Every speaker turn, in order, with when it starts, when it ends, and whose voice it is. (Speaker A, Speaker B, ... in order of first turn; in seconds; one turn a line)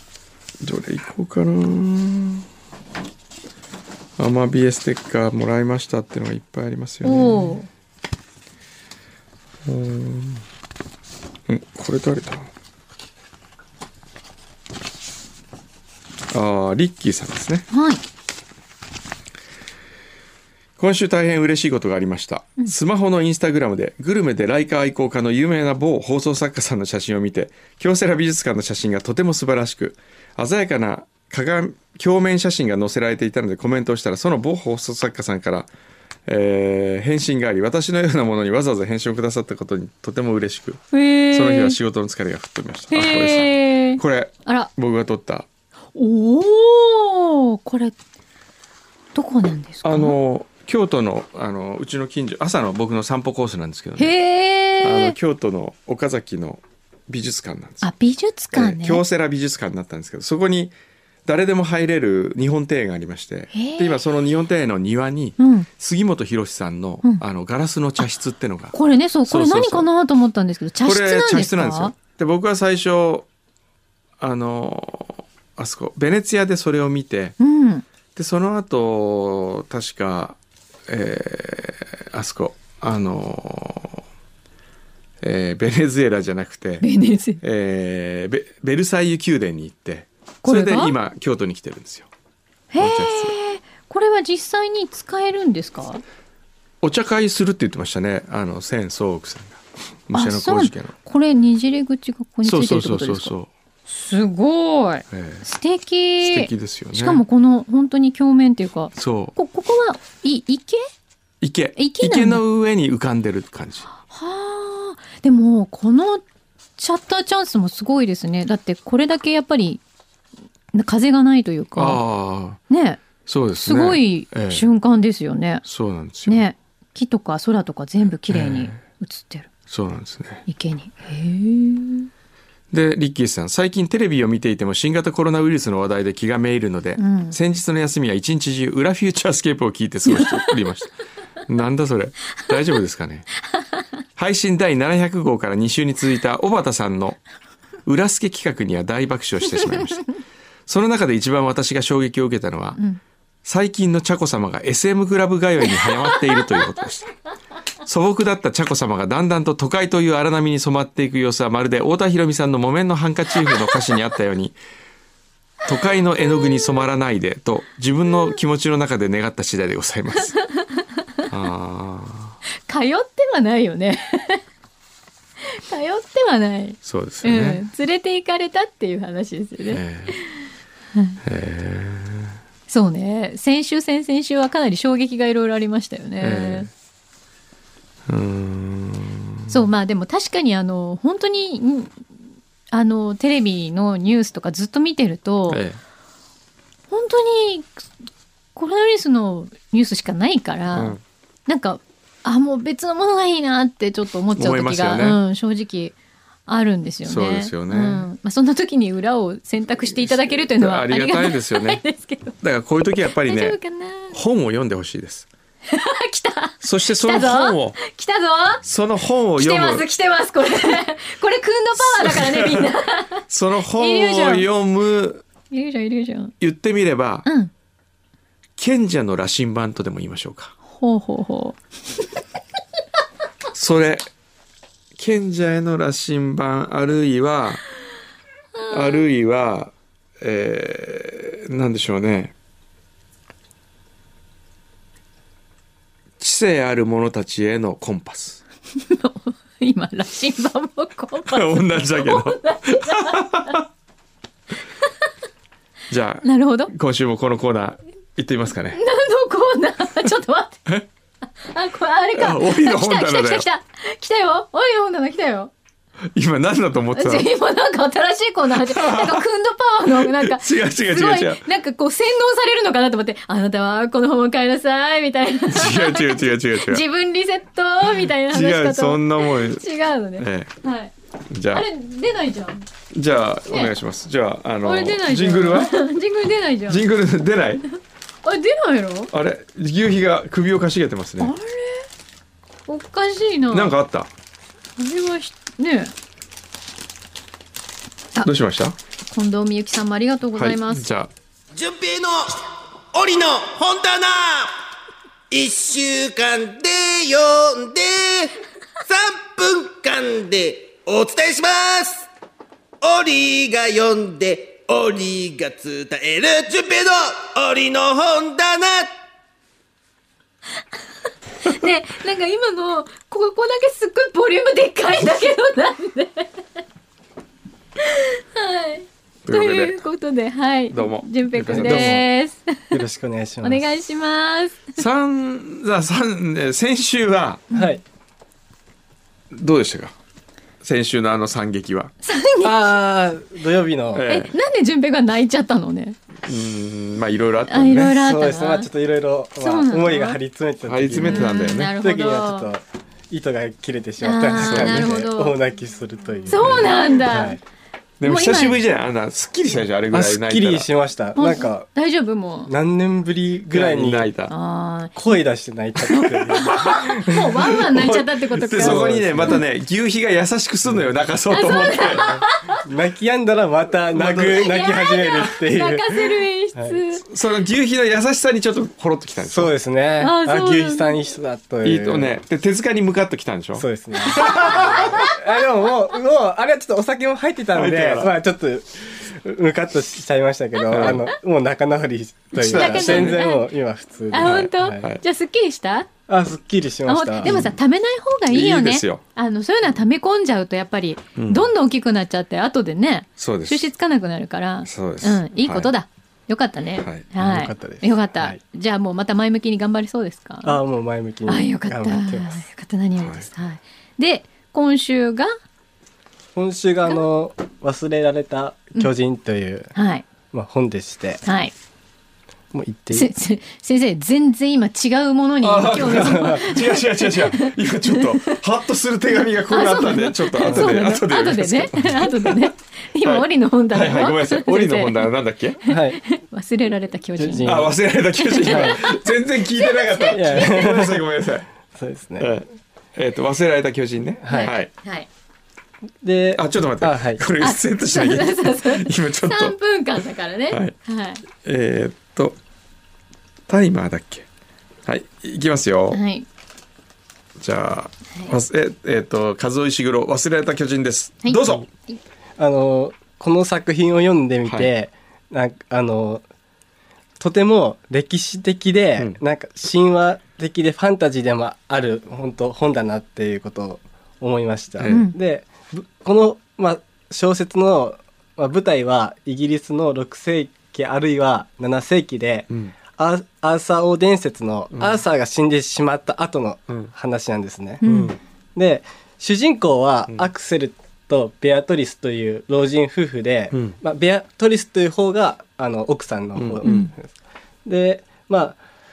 Speaker A: 0.6-2.5
Speaker A: 4.2-7.6
Speaker B: 7.0-7.7
Speaker A: 9.7-10.4
Speaker A: 11.5-12.5
Speaker A: 16.3-17.7
Speaker B: 17.7-18.0
Speaker A: 20.8-35.7
Speaker A: 36.3-45.5
Speaker B: 40.9-41.8
Speaker B: 42.9-44.7
Speaker B: 46.0-48.0
Speaker B: 49.1-50.1
Speaker A: 49.8-54.1
Speaker B: 54.0-55.1
Speaker A: 54.8-57.9
Speaker B: 57.8-59.0
Speaker A: 58.5-60.8
Speaker A: 61.3-68.8
Speaker B: 63.5-64.0
Speaker B: 65.4-65.7
Speaker B: 68.7-71.9
Speaker A: 69.3-69.9
Speaker A: 70.8-73.3
Speaker A: 74.2-77.4
Speaker B: 77.4-77.8
Speaker A: 78.2-84.0
Speaker A: 85.2-86.9
Speaker B: 86.8-87.4
Speaker A: 87.4-92.1
Speaker B: 90.4-90.9
Speaker B: 92.7-96.0
Speaker A: 92.8-93.3
Speaker A: 96.8-100.9
Speaker B: 100.1-103.3
Speaker A: 102.4-103.5
Speaker B: 103.9-110.8
Speaker A: 105.1-105.4
Speaker A: 106.2-107.2
Speaker A: 109.0-109.3
Speaker A: 111.4-113.9
Speaker B: 111.8-112.4
Speaker B: 114.0-116.2
Speaker B: 116.8-119.8
Speaker B: 120.7-122.0
Speaker A: 121.8-122.6
Speaker B: 122.7-123.0
Speaker A: 123.3-124.7
Speaker B: 123.6-125.6
Speaker A: 125.7-126.5
Speaker B: 126.2-129.5
Speaker A: 128.3-128.8
Speaker A: 129.7-130.4
Speaker B: 130.5-132.1
Speaker A: 132.7-140.9
Speaker B: 137.0-137.4
Speaker B: 140.1-140.5
Speaker A: 141.5-143.3
Speaker A: 144.2-147.2
Speaker A: 147.9-150.1
Speaker A: 150.7-152.8
Speaker A: 153.4-157.1
Speaker B: 155.8-156.6
Speaker A: 157.8-164.6
Speaker A: 165.6-170.3
Speaker B: 170.3-170.8
Speaker A: 171.3-172.4
Speaker B: 172.7-174.4
Speaker B: 175.4-180.3
Speaker A: 176.8-177.6
Speaker A: 179.6-180.2
Speaker B: 180.9-181.2
Speaker A: 181.2-182.4
Speaker B: 182.7-186.7
Speaker A: 186.2-186.7
Speaker A: 188.1-189.6
Speaker B: 189.5-192.0
Speaker B: 192.7-195.6
Speaker A: 195.5-195.8
Speaker B: 196.9-197.8
Speaker B: 198.6-205.9
Speaker A: 200.7-201.0
Speaker A: 204.4-205.2
Speaker B: 206.5-212.4
Speaker A: 207.1-208.1
Speaker A: 209.9-211.8
Speaker A: 212.4-213.6
Speaker B: 213.1-214.2
Speaker A: 214.1-215.3
Speaker B: 215.7-218.6
Speaker A: 216.6-217.8
Speaker A: 218.6-219.9
Speaker B: 219.4-224.5
Speaker A: 221.8-222.7
Speaker A: 223.3-225.2
Speaker B: 225.5-226.3
Speaker A: 226.4-227.3
Speaker B: 227.3-227.5
Speaker A: 228.6-230.5
Speaker B: 230.7-231.6
Speaker A: 233.5-234.1
Speaker A: 235.0-237.6
Speaker B: 238.7-238.9
Speaker A: 238.7-242.3
Speaker A: 246.2-248.4
Speaker B: 248.8-253.6
Speaker A: 251.2-253.7
Speaker A: 255.9-258.8
Speaker B: 256.2-256.7
Speaker B: 258.8-260.7
Speaker B: 261.4-265.5
Speaker A: 262.1-263.5
Speaker A: 266.1-267.3
Speaker B: 266.9-280.9
Speaker A: 268.5-269.2
Speaker A: 269.9-271.5
Speaker A: 275.5-276.8
Speaker A: 278.3-279.7
Speaker A: 280.2-280.5
Speaker A: 281.3-281.7
Speaker B: 281.5-282.7
Speaker A: 282.9-285.8
Speaker B: 284.6-286.9
Speaker A: 286.7-287.6
Speaker B: 288.2-289.1
Speaker A: 289.1-291.3
Speaker B: 291.2-291.9
Speaker B: 292.7-293.7
Speaker A: 293.5-294.1
Speaker B: 294.8-295.9
Speaker A: 298.2-298.8
Speaker B: 299.1-300.9
Speaker A: 300.4-301.1
Speaker C: 301.5-304.6
Speaker C: 305.3-312.1
Speaker C: 312.8-318.9
Speaker B: 321.4-326.4
Speaker B: 327.8-332.8
Speaker A: 329.2-329.8
Speaker A: 330.7-332.0
Speaker D: 331.4-332.1
Speaker D: 332.7-333.7
Speaker B: 333.4-334.8
Speaker A: 334.8-337.4
Speaker B: 337.5-337.8
Speaker D: 337.5-337.8
Speaker A: 339.3-339.9
Speaker A: 340.6-341.9
Speaker B: 342.0-342.6
Speaker D: 342.4-344.1
Speaker A: 343.9-344.3
Speaker B: 344.1-346.0
Speaker A: 346.2-348.0
Speaker B: 347.5-348.7
Speaker D: 347.9-357.4
Speaker B: 349.4-350.2
Speaker A: 350.7-351.7
Speaker B: 351.0-352.5
Speaker B: 354.0-355.4
Speaker A: 354.4-354.9
Speaker B: 356.3-357.4
Speaker A: 358.0-360.7
Speaker B: 358.0-358.6
Speaker D: 359.9-361.7
Speaker B: 361.2-362.5
Speaker D: 362.5-364.1
Speaker A: 363.5-364.3
Speaker B: 364.3-365.0
Speaker D: 365.0-367.1
Speaker B: 365.9-369.4
Speaker A: 365.9-372.2
Speaker D: 368.4-369.4
Speaker B: 371.3-372.6
Speaker D: 372.1-375.9
Speaker A: 373.9-374.5
Speaker B: 374.4-377.1
Speaker A: 377.1-379.5
Speaker D: 379.2-382.1
Speaker B: 380.0-380.9
Speaker A: 381.6-384.9
Speaker D: 383.6-394.8
Speaker B: 384.2-385.1
Speaker A: 387.5-388.1
Speaker A: 390.7-391.1
Speaker A: 392.4-393.3
Speaker B: 392.5-393.4
Speaker B: 394.1-395.9
Speaker A: 394.2-395.0
Speaker D: 396.1-397.3
Speaker B: 396.9-410.6
Speaker A: 397.2-397.5
Speaker A: 398.3-399.0
Speaker A: 401.2-401.5
Speaker A: 403.2-403.7
Speaker A: 404.6-405.7
Speaker A: 406.8-407.1
Speaker D: 407.2-408.4
Speaker D: 410.4-412.4
Speaker B: 411.3-415.3
Speaker A: 413.0-413.3
Speaker D: 416.4-419.7
Speaker B: 419.8-420.1
Speaker D: 420.3-421.2
Speaker B: 421.2-421.5
Speaker D: 422.5-423.1
Speaker B: 422.9-428.4
Speaker A: 425.4-432.5
Speaker D: 425.9-426.4
Speaker B: 429.5-435.1
Speaker D: 430.5-430.8
Speaker A: 433.0-435.6
Speaker D: 435.7-436.0
Speaker B: 435.7-437.6
Speaker D: 437.2-437.7
Speaker A: 437.4-441.5
Speaker B: 438.2-440.6
Speaker D: 438.5-438.8
Speaker D: 440.1-441.1
Speaker D: 441.8-442.3
Speaker A: 442.2-444.7
Speaker D: 444.2-444.5
Speaker B: 444.3-445.1
Speaker D: 446.0-447.2
Speaker A: 446.4-449.6
Speaker B: 447.4-451.2
Speaker A: 450.5-450.8
Speaker A: 451.3-452.4
Speaker A: 453.5-454.3
Speaker A: 454.9-456.0
Speaker B: 455.9-456.3
Speaker A: 457.4-461.7
Speaker B: 461.2-462.0
Speaker D: 462.4-466.2
Speaker A: 464.4-464.7
Speaker D: 467.2-487.8
Speaker A: 474.8-475.1
Speaker B: 474.9-475.1
Speaker A: 484.7-485.0
Speaker B: 487.8-488.2
Speaker A: 487.8-488.2
Speaker D: 488.6-497.1
Speaker A: 496.4-496.6
Speaker B: 496.6-496.9
Speaker D: 497.7-498.6